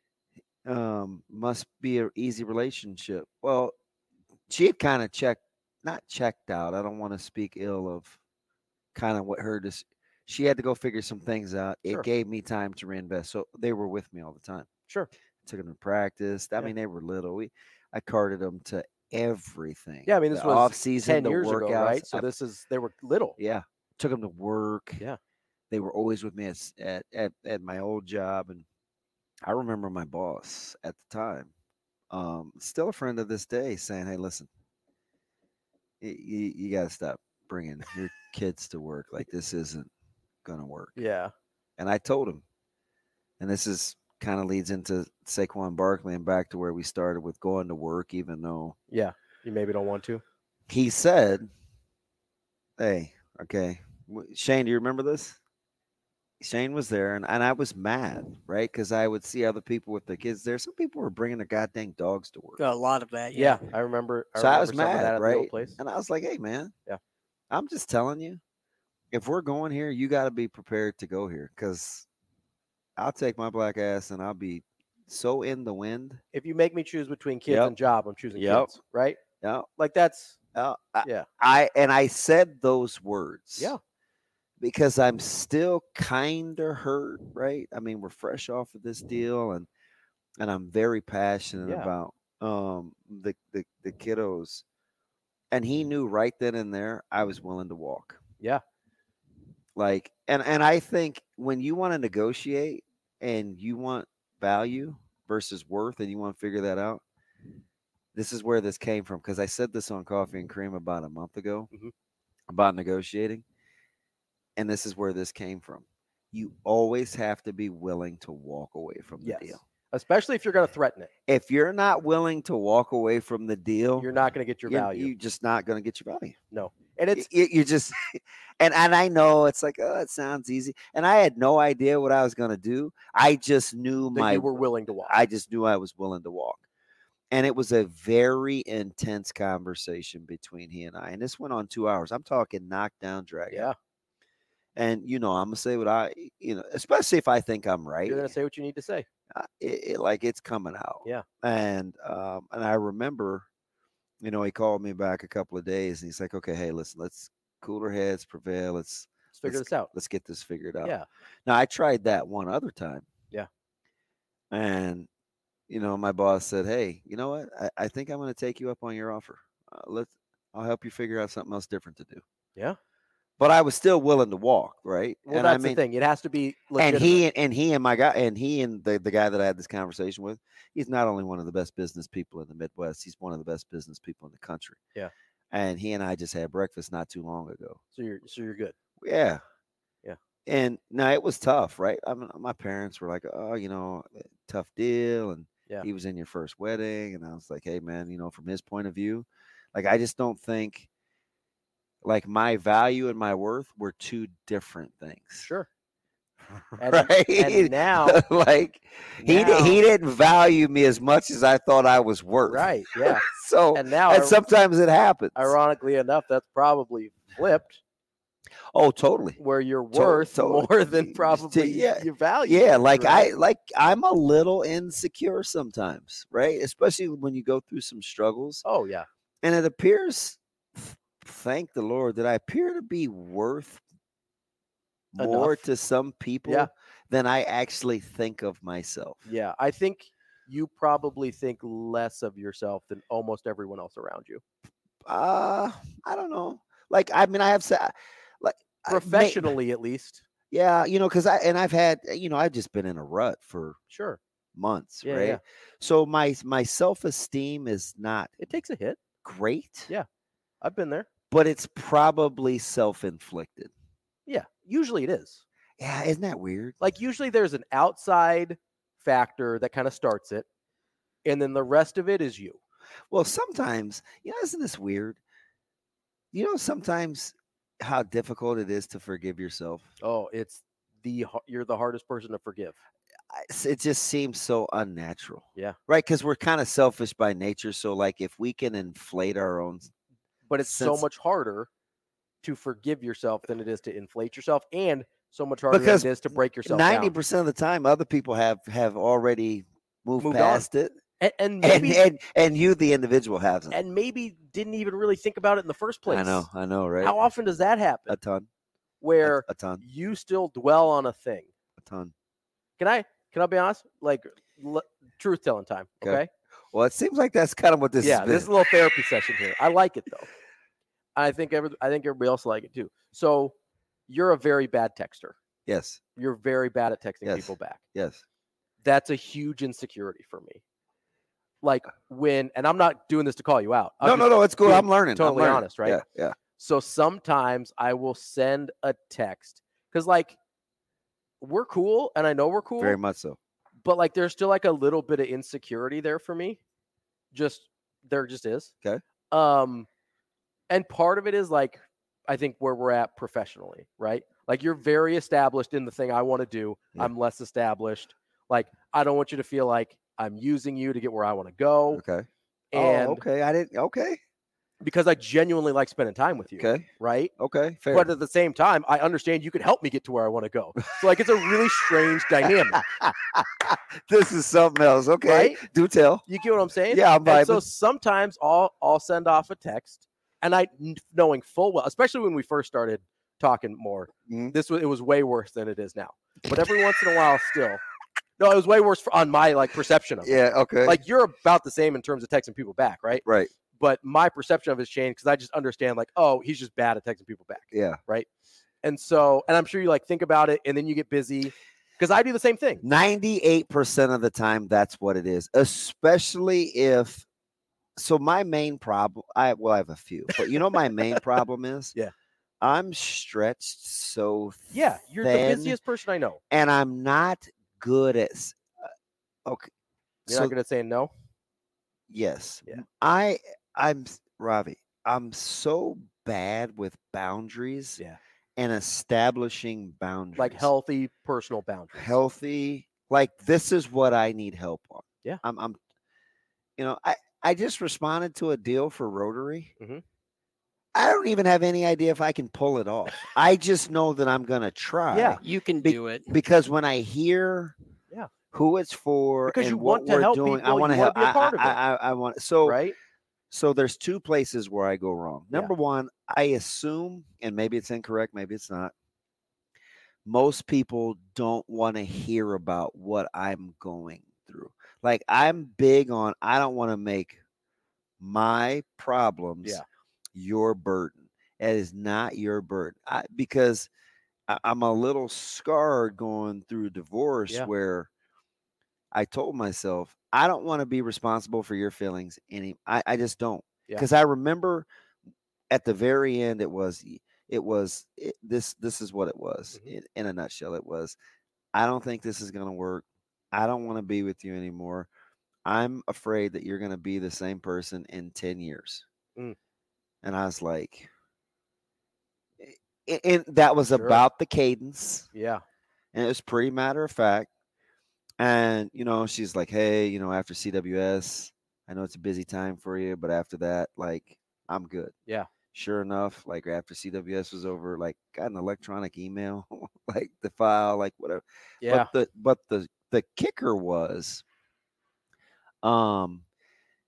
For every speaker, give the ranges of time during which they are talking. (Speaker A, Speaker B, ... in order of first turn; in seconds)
Speaker A: 0.6-3.7, 4.5-8.2, 8.9-14.7, 15.4-22.3, 23.4-25.0, 25.7-28.6, 29.4-31.5, 32.1-34.5, 36.0-39.9, 40.4-41.0, 41.8-42.4, 43.4-48.8, 50.7-51.5, 52.8-55.4, 56.4-62.6, 64.3-66.7, 67.5-68.4, 69.1-72.0, 73.0-76.2, 77.5-77.7, 78.3-78.7, 79.4-79.7, 80.5-83.7, 84.6-89.7, 90.4-94.6, 95.5-98.2, 99.8-107.0, 108.1-111.7, 112.5-113.4, 114.5-119.6, 121.3-124.1, 124.7-126.4, 127.1-136.6, 137.3-143.7, 144.8-148.3, 149.3-153.4, 154.2-163.1, 164.5-165.1, 165.7-172.2, 173.4-175.8, 176.8-184.8, 185.5-187.8, 189.0-189.4, 190.4-200.9, 202.0-205.5, 206.5-215.5, 218.7-219.4, 219.9-228.6, 229.4-233.8, 235.1-239.2, 245.1-249.5, 250.5-253.8, 254.5-258.4, 259.2-259.9, 261.3-263.7, 265.8-266.8, 273.1-275.2, 276.3-279.9, 283.3-289.9, 290.6-291.0, 295.7-296.1, 296.6-300.9, 301.6-303.8, 306.1-307.2, 308.1-308.5, 309.2-309.8, 311.8-312.1, 316.0-318.5, 325.6-326.0, 327.2-328.2, 334.0-336.4, 342.8-343.4, 361.9-364.2, 366.6-366.9, 367.4-368.1, 372.8-376.2, 376.9-377.6, 384.3-384.5, 390.2-391.0, 393.2-393.5, 397.7-398.0, 402.8-407.2, 407.9-411.9, 412.6-415.8, 416.5-418.9, 420.2-420.5, 422.1-428.0, 428.6-430.7, 431.9-435.8, 436.8-439.7, 440.9-447.7, 448.5-452.8, 453.5-458.9, 460.2-467.4, 468.2-469.8, 470.3-473.9, 474.5-478.1, 479.1-484.9, 485.7-491.1, 491.7-495.1, 495.6-499.0, 500.2-501.1, 502.6-505.3, 506.1-507.5, 508.4-515.1, 515.7-524.4, 525.8-526.4
Speaker B: 20.1-23.4, 41.0-41.3, 48.9-50.2, 63.3-65.8, 76.3-79.2, 79.8-80.3, 91.6-91.9, 119.2-121.1, 124.0-125.1, 126.5-127.3, 134.1-135.2, 148.1-149.1, 159.3-159.9, 175.2-177.2, 187.9-188.7, 206.8-208.2, 209.2-209.8, 212.5-214.4, 215.3-217.8, 219.4-223.3, 228.6-229.1, 235.2-235.6, 239.2-244.4, 248.9-250.2, 253.9-254.2, 255.0-255.4, 258.4-259.0, 260.6-261.1, 264.3-265.4, 266.8-270.4, 271.2-272.6, 280.0-282.8, 290.5-291.7, 292.4-297.1, 300.2-300.6, 301.2-302.0, 303.7-306.5, 307.0-308.2, 309.0-311.5, 312.8-316.3, 318.0-320.3, 321.1-323.5, 324.1-325.4, 326.1-327.8, 328.8-330.6, 331.6-336.0, 336.6-340.4, 341.4-343.0, 343.8-346.6, 347.3-348.7, 349.3-349.9, 350.7-362.0, 362.7-363.2, 364.8-367.3, 367.9-372.8, 375.2-375.6, 376.2-387.8, 388.4-393.2, 393.8-398.3, 398.8-402.8, 410.6-411.0, 414.7-416.4, 420.3-421.1, 430.4-432.1, 445.1-445.4, 449.5-451.8, 452.6-452.9, 503.9-504.2, 505.3-505.6, 521.8-522.1
Speaker C: 62.6-63.6, 445.4-446.3